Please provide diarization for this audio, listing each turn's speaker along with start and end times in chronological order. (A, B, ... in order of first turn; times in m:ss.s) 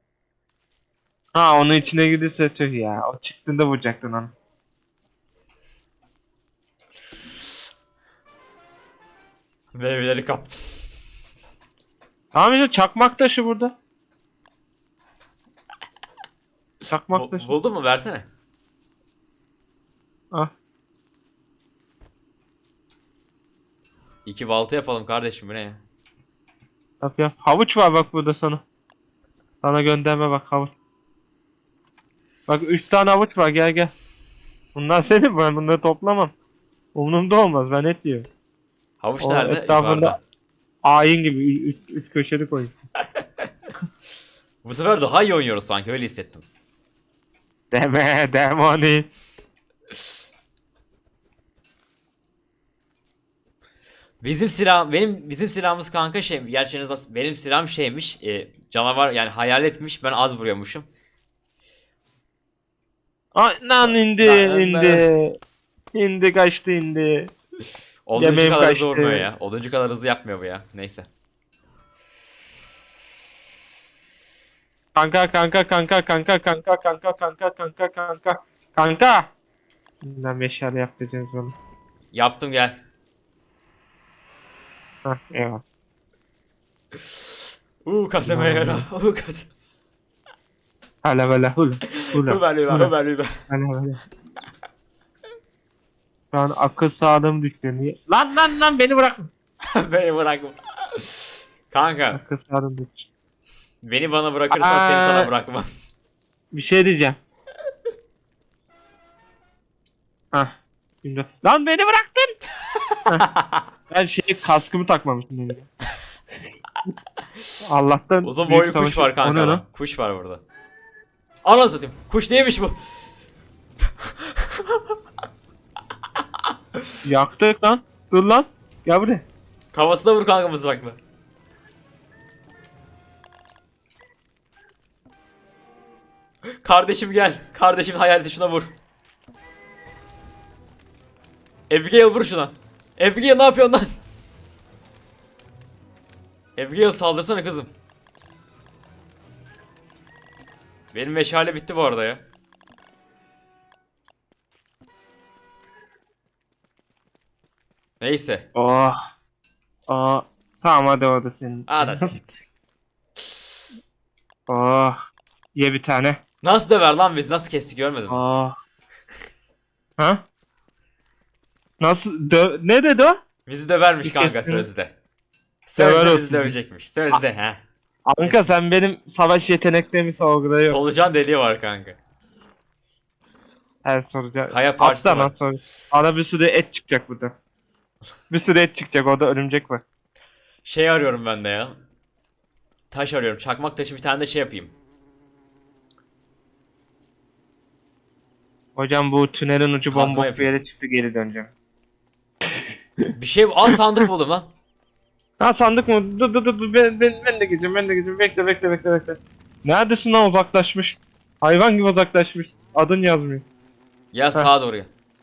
0:01.3-0:04.3 A
0:09.7-0:10.9 B
0:12.3-0:13.8 A
0:16.9-0:17.5 A
0:17.1-0:18.3 B
0:24.3-0:25.8 B
0:27.0-0:28.6 A
0:29.6-0:30.7 A
0:32.5-0:33.9 A
0:34.8-0:36.3 A
0:36.9-0:38.3 A
0:39.0-0:40.2 B
0:39.2-0:40.2 A
0:40.8-0:42.8 A
0:44.6-0:46.4 B
0:47.7-0:49.1 A
0:54.2-1:00.9 B
1:03.3-1:05.4 A
1:03.8-1:05.0 B
1:05.9-1:07.3 A
1:08.1-1:11.1 B
1:08.2-1:09.3 A
1:15.0-1:19.3 A
1:20.0-1:21.6 A
1:22.1-1:22.8 B
1:25.0-1:25.6 A
1:27.0-1:27.2 B
1:27.8-1:29.5 B
1:28.2-1:28.9 A
1:31.0-1:32.9 A
1:31.9-1:33.3 B
1:33.5-1:34.0 A
1:36.3-1:39.3 A
1:39.6-1:42.2 B
1:42.1-1:43.1 A
1:43.8-1:45.7 B
1:44.6-1:45.3 A
1:46.5-1:47.2 A
1:50.3-1:52.4 A
1:53.2-1:53.6 B
1:53.9-1:55.7 A
1:57.6-1:59.6 A
1:58.2-2:00.4 B
2:01.4-2:02.8 B
2:04.0-2:04.8 B
2:07.0-2:09.2 A
2:09.7-2:11.0 B
2:16.6-2:18.8 B
2:21.7-2:23.9 B
2:26.6-2:27.7 B
2:30.9-2:32.2 B
2:38.0-2:38.5 B
2:38.6-2:39.0 A
2:39.9-2:42.1 A
2:41.7-2:42.3 B
2:44.5-2:45.0 A
2:45.6-2:46.2 A
2:46.4-2:48.2 B
2:48.1-2:48.6 A
2:50.0-2:50.2 A
2:51.8-2:53.2 A
2:53.5-2:54.9 B
2:54.0-2:54.7 A
2:55.7-2:57.6 B
2:55.8-2:56.6 A
2:58.1-3:00.8 A
2:58.2-2:58.5 B
3:00.6-3:02.0 B
3:03.8-3:07.3 A
3:04.5-3:05.3 B
3:08.3-3:09.8 A
3:10.6-3:11.7 B
3:12.9-3:14.7 B
3:18.8-3:21.5 A
3:19.9-3:20.5 B
3:23.2-3:24.5 B
3:25.4-3:33.5 A
3:34.1-3:34.9 B